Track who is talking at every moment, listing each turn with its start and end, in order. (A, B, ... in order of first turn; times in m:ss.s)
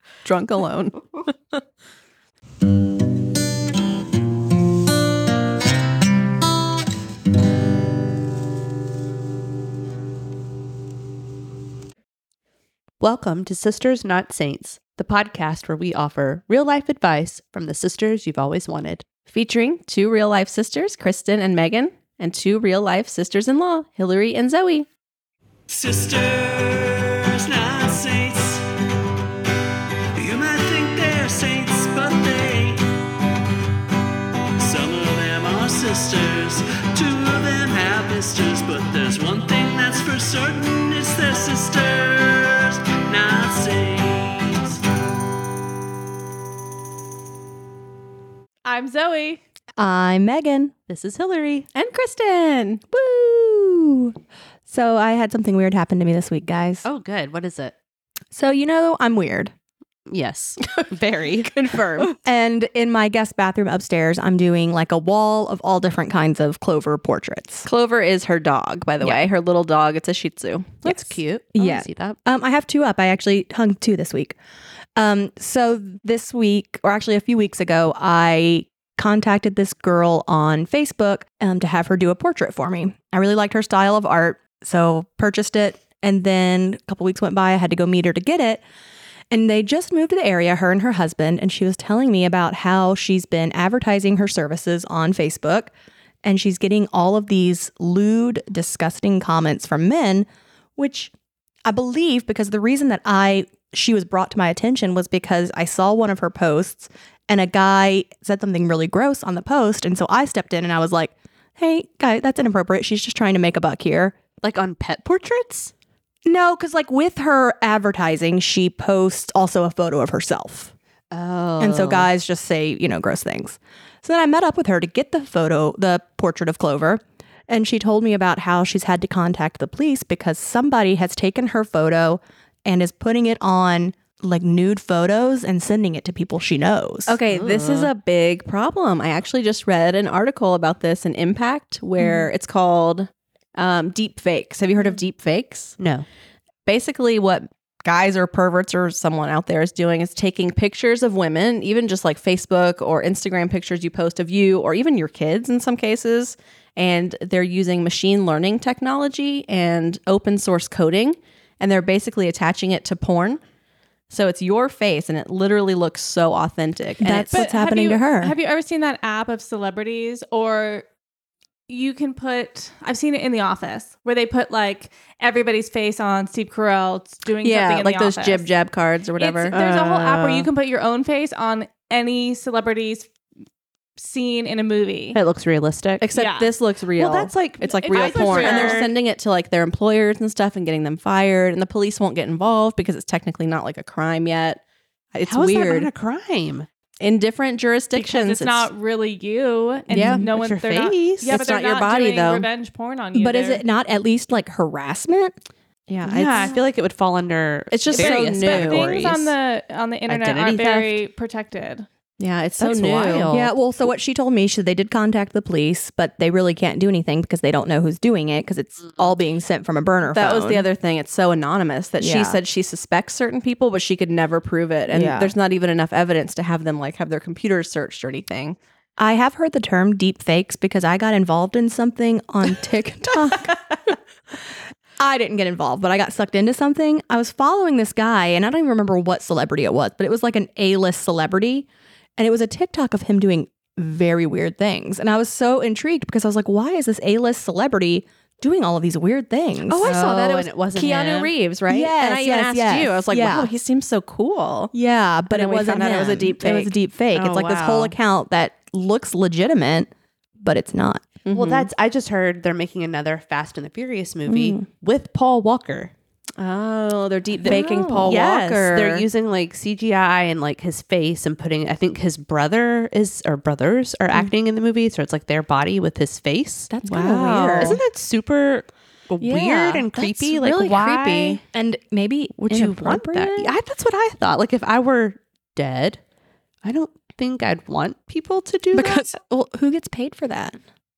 0:00.2-0:01.3 A
0:13.0-0:19.0 B
0:19.3-0:24.9 A
0:25.7-0:28.6 C
0:30.2-0:32.8 C
0:34.6-0:44.8 C
0:48.6-0:49.4 D
0:49.8-0:50.7 E
0:50.9-0:51.7 B
0:51.7-0:52.8 A
0:52.9-0:54.2 E
0:54.7-0:56.8 E
0:56.8-0:57.8 B
0:58.3-0:59.5 E
1:00.1-1:02.1 B
1:01.4-1:02.1 A
1:02.1-1:07.7 E
1:07.6-1:11.0 A
1:10.8-1:12.2 B
1:11.6-1:14.4 E
1:14.9-1:28.6 E
1:29.3-1:35.7 E
1:36.2-1:41.1 E
1:41.7-1:54.2 E
1:54.4-1:55.7 B
1:56.2-2:00.7 E
2:01.1-2:02.1 B
2:01.6-2:17.2 E
2:17.1-2:25.8 A
2:17.3-2:17.9 B
2:22.0-2:22.3 E
2:25.8-2:26.1 B
2:26.6-2:43.4 A
2:44.1-2:47.4 A
2:47.0-2:48.3 E
2:47.3-2:50.8 D
2:51.7-2:58.5 D
2:57.4-2:59.5 A
2:59.2-3:03.1 D
2:59.5-3:00.5 B
3:04.0-3:05.2 D
3:05.1-3:06.0 B
3:06.0-3:14.6 A
3:06.1-3:06.5 D
3:07.0-3:08.9 B
3:07.9-3:08.9 D
3:15.1-3:15.9 A
3:15.3-3:16.7 B
3:17.0-3:18.7 A
3:17.9-3:23.6 D
3:19.9-3:20.2 E
3:19.9-3:21.4 B
3:21.2-3:22.5 A
3:23.2-3:25.4 E
3:25.9-3:26.5 A
3:26.1-3:26.6 D
3:26.2-3:29.3 B
3:27.7-3:28.9 A
3:27.9-3:31.8 D
3:30.1-3:31.0 B
3:32.2-3:33.3 A
3:32.6-3:33.5 B
3:33.3-3:40.7 E
3:40.1-3:48.6 A
3:42.0-3:42.4 E
3:44.9-3:45.3 E
3:49.0-3:53.9 E
3:55.0-4:09.9 E
4:09.7-4:14.7 A
4:09.8-4:11.3 B
4:11.7-4:13.5 E
4:14.7-4:21.1 E
4:15.3-4:16.7 A
4:17.1-4:18.0 B
4:21.2-4:21.7 A
4:21.3-4:25.9 B
4:24.3-4:24.6 E
4:26.4-4:29.1 A
4:27.4-4:28.1 E
4:27.4-4:36.7 B
4:36.7-4:37.8 E
4:36.8-4:37.8 A
4:37.6-4:41.4 B
4:39.2-4:43.5 E
4:42.3-4:46.0 B
4:46.6-4:49.1 B
4:48.7-4:50.6 E